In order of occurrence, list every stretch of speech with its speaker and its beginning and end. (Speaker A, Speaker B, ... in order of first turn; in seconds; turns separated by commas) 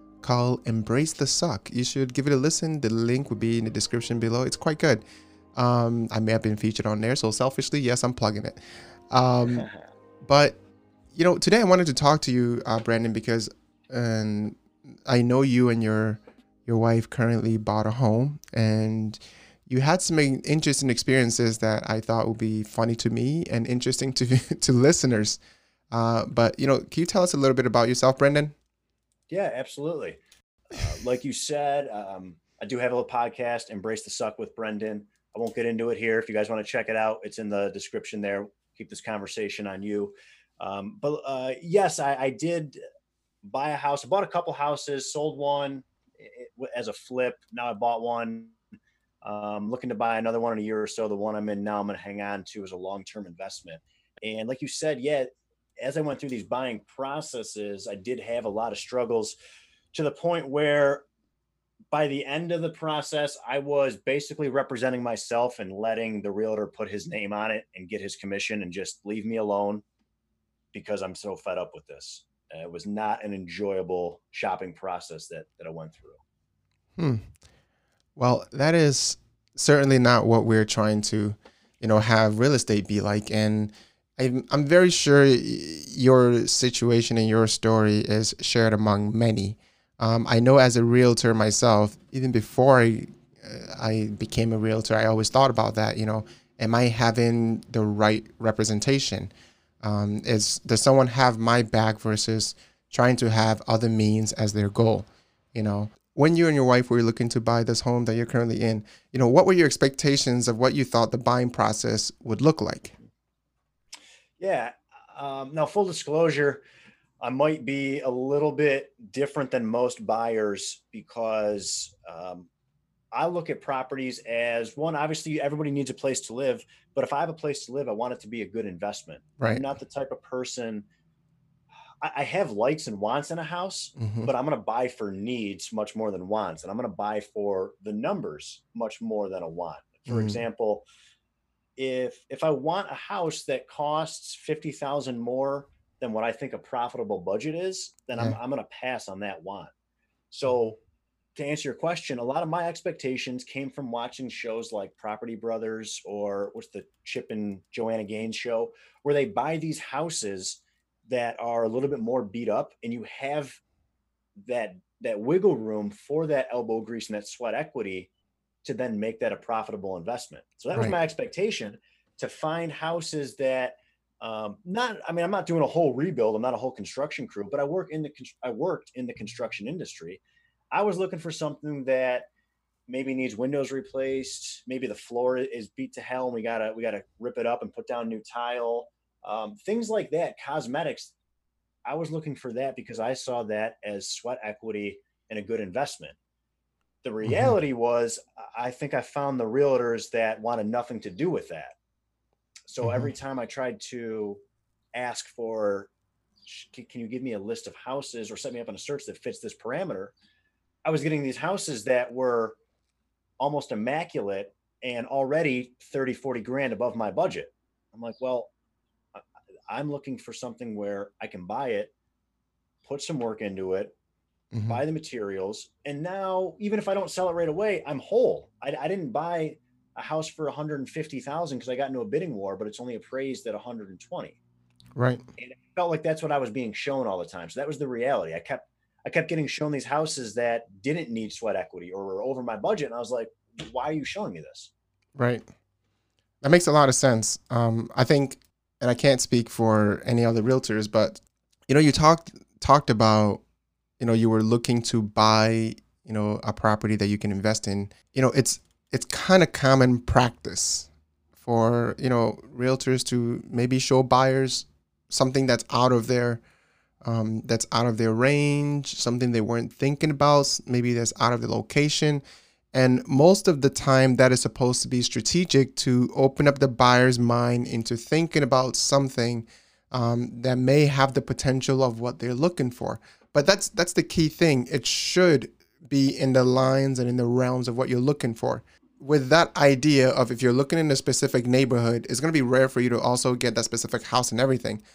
Speaker A: 0.2-5.0, Speaker A: 5.5-8.6, Speaker A: 9.1-9.7, Speaker B: 9.5-9.8, Speaker A: 10.2-10.6, Speaker A: 11.1-25.4, Speaker A: 25.9-28.5, Speaker B: 29.3-30.2, Speaker B: 30.7-42.8, Speaker B: 43.5-48.6, Speaker B: 49.2-59.4, Speaker B: 59.9-61.1, Speaker B: 61.9-69.8, Speaker B: 70.7-76.2, Speaker A: 77.0-77.2, Speaker A: 78.2-99.3, Speaker A: 99.8-112.9, Speaker B: 114.4-116.6, Speaker B: 117.2-122.5, Speaker B: 123.1-130.9, Speaker A: 129.4-129.6, Speaker B: 132.0-140.9, Speaker A: 134.0-134.3, Speaker A: 140.1-140.4, Speaker B: 141.8-149.7, Speaker B: 150.3-150.8, Speaker B: 151.4-163.6, Speaker B: 164.4-168.1, Speaker B: 168.6-180.2, Speaker B: 180.7-182.3, Speaker B: 182.9-191.1, Speaker B: 191.8-196.2, Speaker B: 197.0-201.8, Speaker A: 197.2-197.6, Speaker B: 202.7-204.4, Speaker A: 202.8-203.1, Speaker B: 204.9-205.9, Speaker B: 206.5-210.1, Speaker B: 210.8-212.6, Speaker B: 213.4-218.5, Speaker B: 219.2-221.9, Speaker B: 222.8-223.9, Speaker A: 224.5-224.8, Speaker B: 224.7-234.4, Speaker A: 235.0-235.2, Speaker B: 235.4-244.7, Speaker A: 245.2-245.4, Speaker A: 246.4-253.4, Speaker A: 254.0-266.4, Speaker A: 267.0-294.8